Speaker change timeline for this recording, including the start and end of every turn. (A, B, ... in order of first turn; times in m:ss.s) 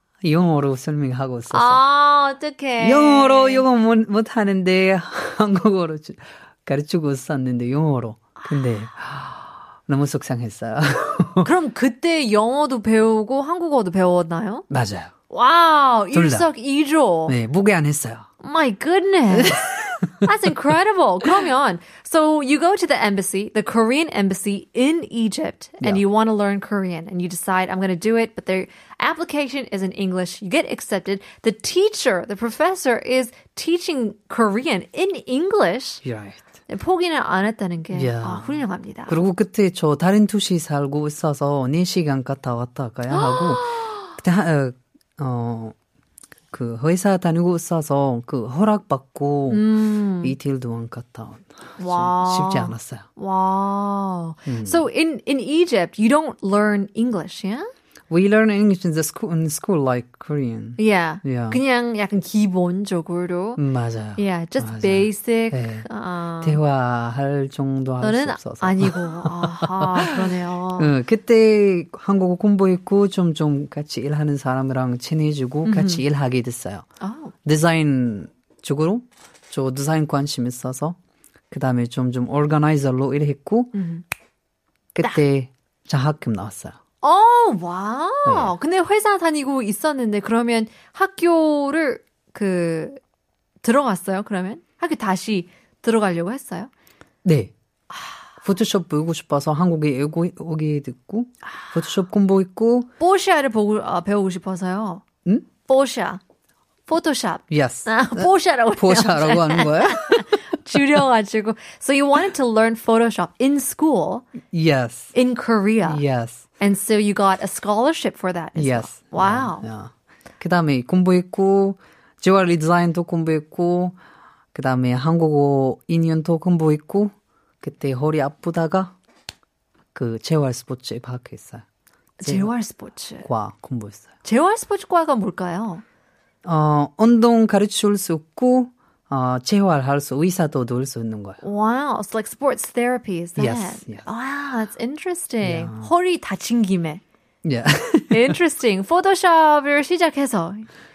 0:00.2-0:01.8 A
0:01.5-0:03.6 B
0:02.8-0:11.5 A
0:08.4-0:08.8 B
0:11.4-0:14.7 B
0:14.7-0:15.1 A
0:15.3-0:17.4 B
0:16.1-0:16.5 A
0:17.3-0:18.3 A
0:18.4-0:36.0 B
0:19.3-0:20.3 A
0:36.0-0:36.4 A
0:36.7-0:39.2 B
0:37.9-0:45.8 A
0:43.1-0:44.1 B
0:46.5-0:53.1 A
0:49.5-0:50.4 B
0:51.8-0:57.7 B
0:54.4-0:54.8 A
0:58.1-1:01.6 A
1:00.8-1:03.6 B
1:03.6-1:05.9 A
1:04.2-1:06.6 B
1:06.4-1:16.8 A
1:08.0-1:10.9 B
1:15.6-1:16.0 B
1:17.0-1:17.3 B
1:17.4-1:21.0 A
1:21.5-1:23.8 A
1:23.7-1:24.0 B
1:24.9-1:26.8 A
1:27.0-1:33.0 B
1:28.2-1:28.5 A
1:33.6-1:36.7 B
1:37.2-1:37.5 A
1:37.9-1:38.2 B
1:38.4-1:42.9 A
1:41.4-1:41.9 B
1:43.0-1:45.0 B
1:45.6-1:46.2 B
1:46.9-1:54.3 B
1:47.5-1:50.3 A
1:54.5-1:55.1 A
1:55.1-1:56.0 B
1:55.8-1:56.4 A
1:56.6-1:59.7 B
1:58.6-2:04.0 A
2:04.5-2:09.0 A
2:09.9-2:11.6 A
2:12.2-2:13.3 B
2:12.2-2:12.5 A
2:13.2-2:14.1 A
2:14.2-2:15.8 B
2:16.4-2:21.4 A
2:21.4-2:27.0 B
2:23.4-2:24.1 A
2:25.4-2:25.9 A
2:27.4-2:28.4 A
2:28.1-2:30.7 B